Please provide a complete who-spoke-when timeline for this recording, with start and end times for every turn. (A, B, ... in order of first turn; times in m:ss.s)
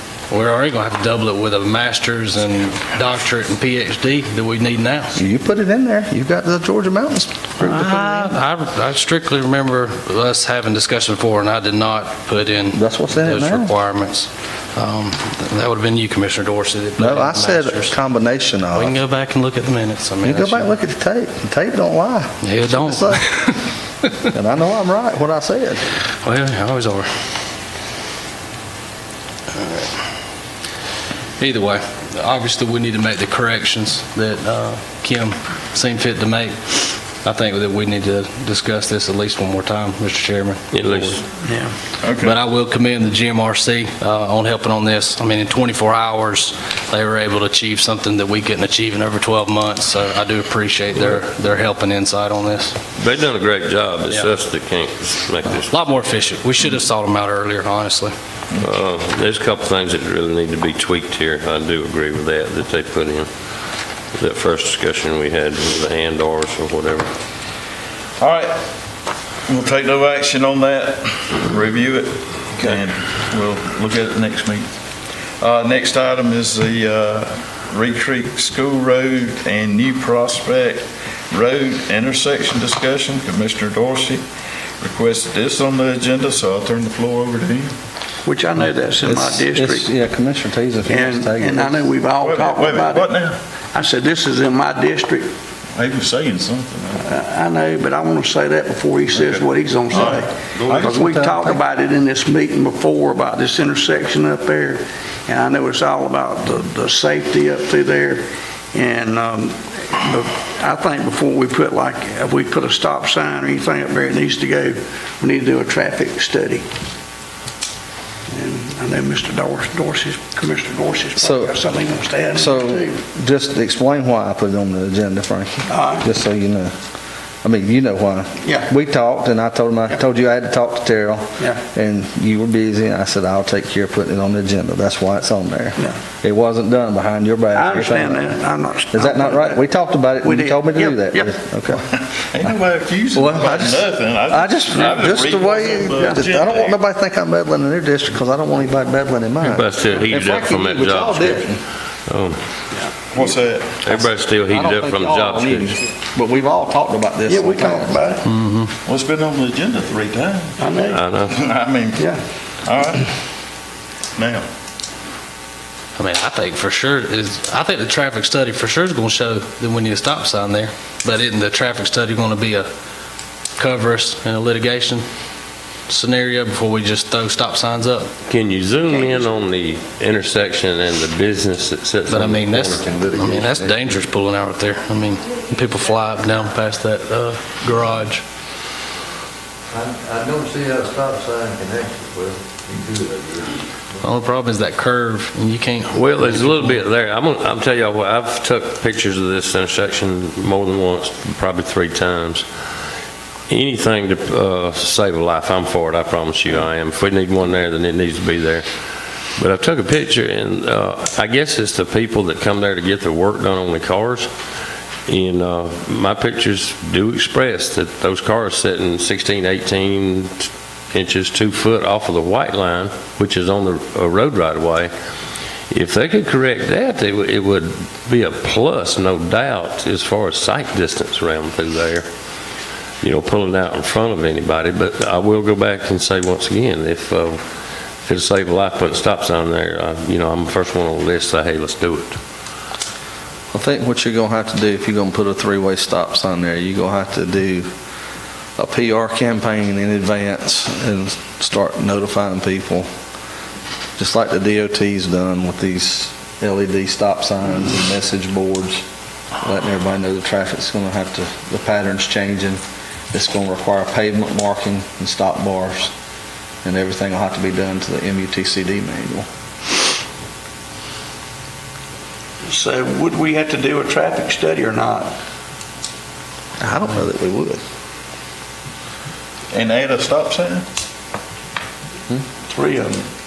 0:00.3-0:05.2 A
0:05.2-0:08.3 B
0:07.6-0:18.0 A
0:12.7-0:13.7 B
0:17.0-0:19.0 B
0:18.8-0:20.7 A
0:20.2-0:23.3 B
0:22.4-0:23.7 A
0:24.2-0:25.8 B
0:26.2-0:27.1 A
0:29.5-0:29.9 A
0:31.4-0:41.2 A
0:40.7-0:41.2 C
0:41.5-0:41.8 D
0:42.0-0:42.4 E
0:42.2-0:52.8 A
0:53.0-0:55.7 C
0:55.7-0:58.1 A
0:58.6-1:03.3 C
1:04.2-1:07.1 C
1:08.2-1:08.6 E
1:09.5-1:14.7 E
1:15.4-1:24.2 E
1:24.8-1:27.7 E
1:28.2-1:29.9 D
1:29.0-1:31.9 B
1:30.9-1:33.2 D
1:32.1-1:33.4 E
1:33.7-1:35.3 D
1:35.8-1:37.1 E
1:37.0-1:56.6 D
1:39.9-1:40.9 E
1:40.6-1:41.6 B
1:58.3-2:02.9 D
2:01.2-2:01.6 B
2:02.4-2:06.8 B
2:05.7-2:06.1 D
2:07.4-2:18.3 B
2:08.4-2:08.7 D
2:17.5-2:19.6 D
2:18.9-2:21.8 B
2:20.2-2:21.3 D
2:21.9-2:26.8 E
2:23.1-2:31.6 B
2:26.0-2:26.3 D
2:29.4-2:32.4 C
2:33.1-2:33.8 E
2:33.8-2:35.8 C
2:33.9-2:38.1 B
2:37.3-2:38.3 D
2:38.2-2:38.7 A
2:38.8-2:42.1 E
2:40.6-2:41.0 D
2:40.9-2:41.4 C
2:42.6-2:43.1 E
2:44.2-2:44.5 E
2:46.0-2:52.7 A
2:53.6-2:55.1 A
2:55.9-2:58.1 A
2:58.3-3:03.0 C
3:02.1-3:08.2 A
3:03.0-3:03.7 F
3:09.7-3:13.5 F
3:14.0-3:16.8 A
3:15.9-3:22.5 C
3:23.5-3:28.7 C
3:29.4-3:34.3 C
3:35.1-3:44.9 C
3:45.7-3:52.1 C
3:53.0-3:57.4 C
3:58.0-4:02.2 C
4:03.5-4:07.7 B
4:08.6-4:12.9 B
4:14.0-4:18.8 B
4:19.4-4:22.6 B
4:23.1-4:25.9 B
4:26.6-4:29.3 B
4:32.4-4:35.1 D
4:36.6-4:37.6 B
4:39.5-4:40.7 E
4:42.5-4:43.0 D